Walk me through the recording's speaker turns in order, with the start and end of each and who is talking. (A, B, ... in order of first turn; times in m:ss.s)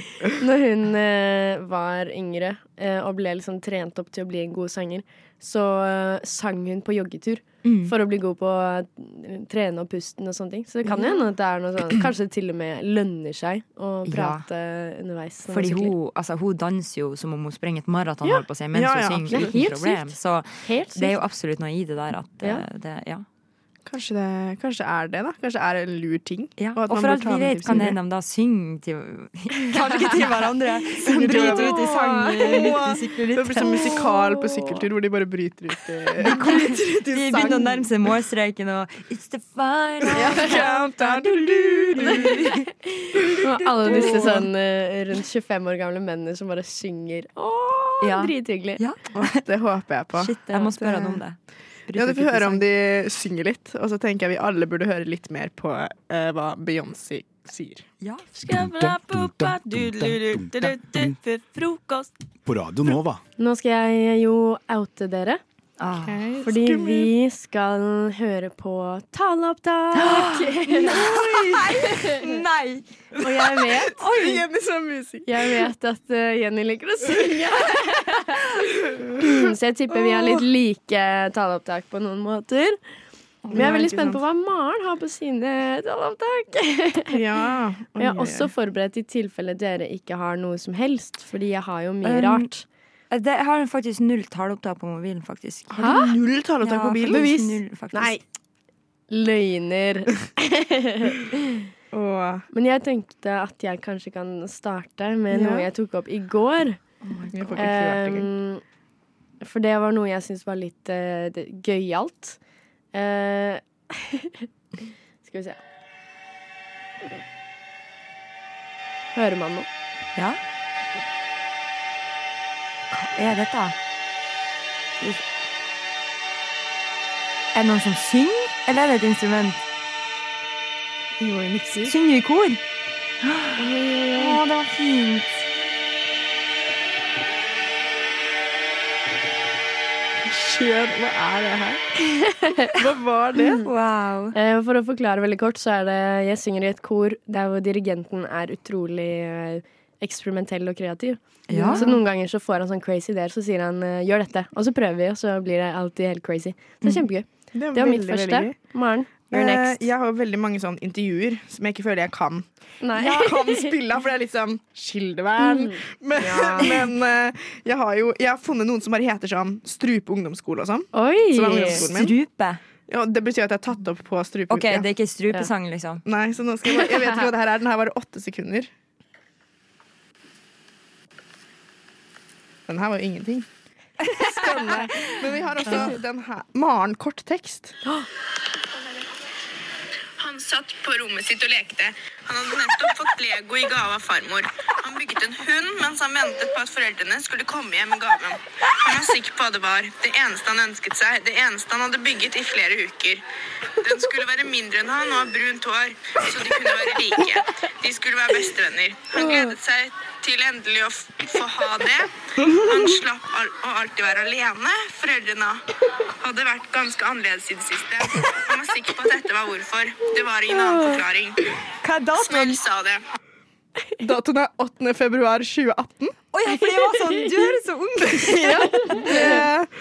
0:00.4-0:15.9 A
0:07.6-0:08.0 B
0:10.9-0:11.2 B
0:14.0-0:14.5 B
0:15.4-0:23.3 B
0:18.7-0:19.7 C
0:19.3-0:20.0 A
0:20.6-0:21.2 A
0:23.9-0:28.0 C
0:26.6-0:34.0 B
0:31.0-0:37.9 C
0:36.2-0:42.7 B
0:40.2-0:42.5 C
0:43.4-0:48.8 A
0:43.7-0:44.5 C
0:43.8-0:44.4 B
0:48.0-0:49.4 B
0:49.1-0:51.2 C
0:50.2-0:51.4 B
0:51.9-0:52.6 B
0:51.9-0:57.8 C
0:58.0-0:58.3 B
0:58.4-1:01.2 D
0:58.4-1:02.1 E
1:02.4-1:03.2 D
1:03.4-1:05.4 A
1:05.8-1:06.2 B
1:06.0-1:07.2 C
1:06.4-1:11.1 A
1:09.9-1:14.4 B
1:11.1-1:11.6 C
1:12.0-1:12.3 A
1:13.2-1:15.7 C
1:13.2-1:14.0 A
1:15.3-1:18.4 A
1:18.9-1:20.5 C
1:19.3-1:22.8 A
1:23.5-1:24.2 C
1:23.5-1:27.2 A
1:27.1-1:28.5 C
1:28.0-1:32.6 A
1:32.0-1:32.5 B
1:33.1-1:35.9 B
1:35.7-1:38.2 C
1:35.8-1:36.1 A
1:36.6-1:38.2 B
1:39.1-1:41.1 A
1:41.9-1:42.5 C
1:42.5-1:46.8 A
1:45.3-1:45.7 C
1:47.3-1:48.3 C
1:47.6-1:48.6 A
1:49.4-1:52.4 A
1:52.9-1:54.4 A
1:55.2-1:55.6 A
1:59.1-1:59.7 A
2:02.9-2:03.8 B
2:07.5-2:09.6 B
2:11.2-2:11.9 C
2:11.8-2:12.6 B
2:13.2-2:15.4 B
2:13.7-2:14.4 C
2:20.2-2:21.8 C
2:22.4-2:22.7 A
2:22.8-2:23.6 C
2:23.6-2:24.4 B
2:24.4-2:39.8 A
2:31.5-2:32.0 B
2:36.8-2:37.1 B
2:37.5-2:52.2 C
2:42.8-2:43.7 A
2:45.4-2:46.8 A
2:50.9-2:51.9 A
2:51.7-2:52.6 B
2:52.9-2:54.9 C
2:54.5-2:56.0 B
2:56.1-2:58.7 C
3:02.7-3:03.5 C
3:04.1-3:07.8 C
3:10.2-3:23.2 F
3:23.8-3:32.1 F
3:32.7-3:35.6 F
3:36.2-3:41.4 F
3:41.8-3:42.6 B
3:42.2-3:43.0 F
3:44.0-3:46.2 C
3:46.3-3:49.4 B
3:48.3-3:49.7 C